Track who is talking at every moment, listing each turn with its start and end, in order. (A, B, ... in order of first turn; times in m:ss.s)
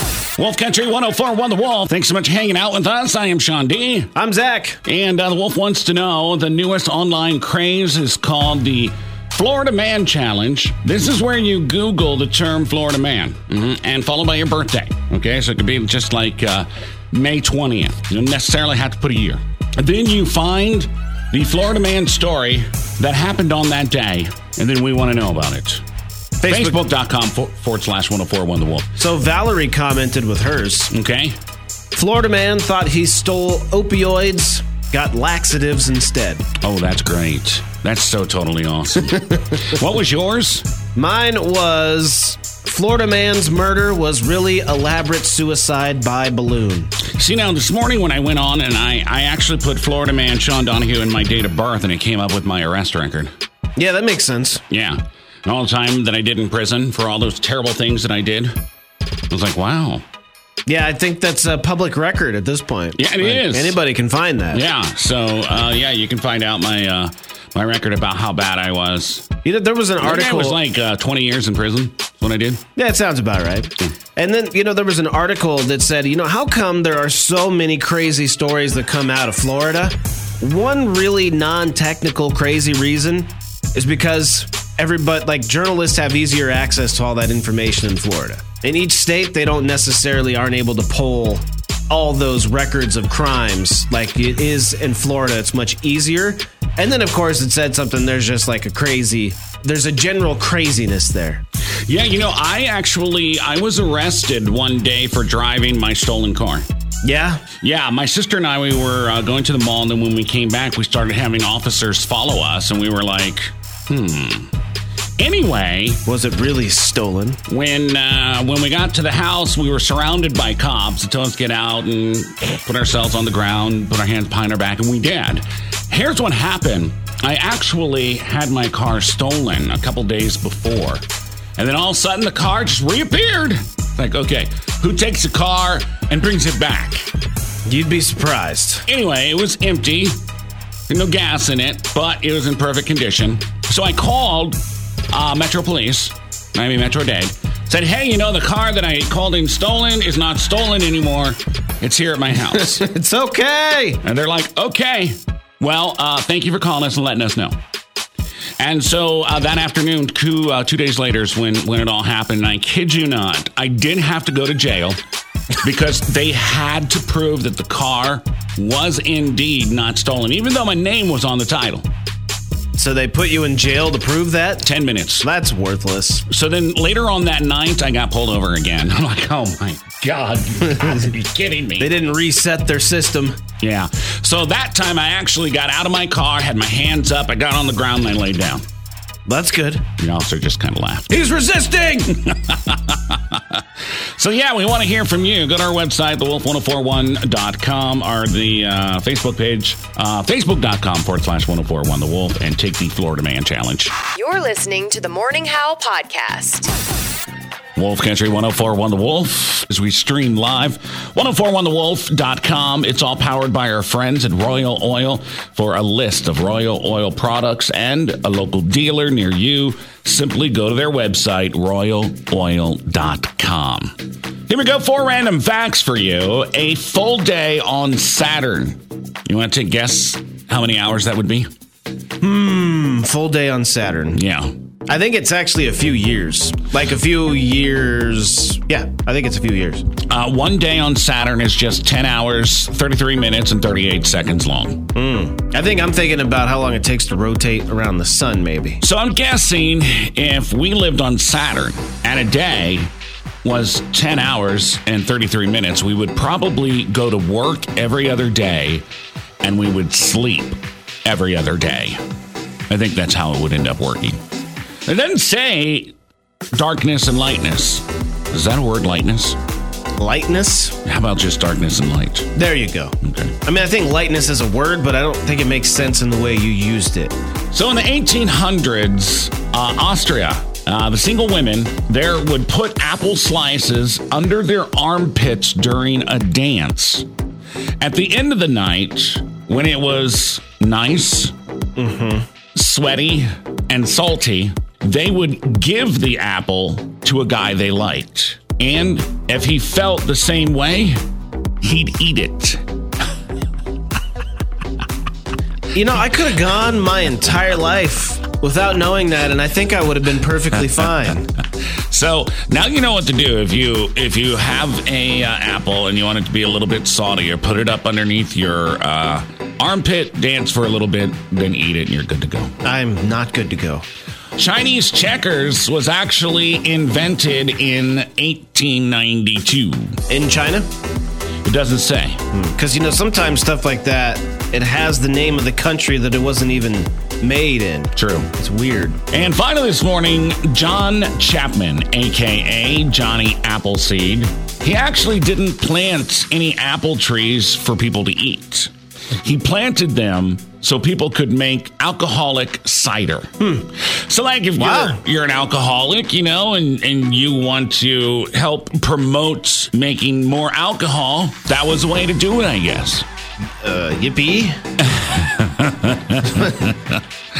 0:00.4-0:04.1 A
0:04.1-0:04.8 B
0:04.8-0:25.8 A
0:26.4-0:26.8 B
0:26.4-0:28.9 A
0:29.0-0:30.9 B
0:30.9-0:31.4 A
0:31.9-0:36.4 B
0:36.6-0:40.7 A
0:40.9-0:46.9 B
0:47.0-0:53.3 A
0:53.8-0:54.6 B
0:54.7-0:58.6 A
0:59.3-1:00.0 A
1:00.6-1:04.6 B
1:02.9-1:03.8 A
1:04.5-1:09.3 A
1:09.4-1:10.6 B
1:10.0-1:12.6 A
1:12.8-1:41.4 B
1:41.8-1:46.7 A
1:47.0-1:47.4 B
1:47.6-1:54.5 A
1:55.2-1:56.0 A
1:56.0-1:57.4 B
1:57.5-2:11.0 A
2:11.6-2:17.1 A
2:17.6-2:18.8 B
2:18.9-2:20.2 A
2:20.9-2:32.8 A
2:32.5-2:34.0 B
2:34.0-2:37.6 A
2:38.6-2:45.0 A
2:45.6-2:51.9 A
2:52.8-2:54.6 B
2:54.6-2:55.3 A
2:55.2-2:56.2 B
2:56.3-3:01.9 A
3:01.8-3:03.4 B
3:03.6-3:08.6 A
3:09.2-3:09.8 B
3:10.0-3:11.2 A
3:11.1-3:12.2 B
3:12.2-3:13.6 A
3:14.2-3:24.0 A
3:24.2-3:26.7 C
3:27.8-3:43.9 A
3:44.5-3:51.5 A
3:52.2-3:54.2 B
3:54.1-3:54.5 A
3:54.9-3:59.8 B
4:00.1-4:04.9 A
4:04.9-4:08.8 B
4:08.8-4:12.9 A
4:13.4-4:18.8 A
4:19.4-4:22.0 A
4:22.7-4:24.2 A
4:24.8-4:25.9 A
4:26.5-4:29.4 A
4:30.0-4:30.8 B
4:30.8-4:32.3 A
4:32.3-4:37.1 B
4:33.0-4:33.3 A
4:37.5-4:47.0 A
4:47.8-4:51.3 A
4:51.8-4:52.2 B
4:52.5-5:01.0 A
5:01.6-5:02.6 A
5:05.7-5:11.3 B
5:11.9-5:22.5 A
5:22.6-5:23.8 B
5:24.4-5:30.0 A
5:30.1-5:30.7 B
5:31.4-5:32.2 A
5:32.3-5:39.0 B
5:38.0-5:38.3 A
5:39.1-6:03.0 A
5:53.4-5:53.6 B
5:54.6-5:55.0 B
6:03.6-6:04.6 B
6:04.8-6:07.0 A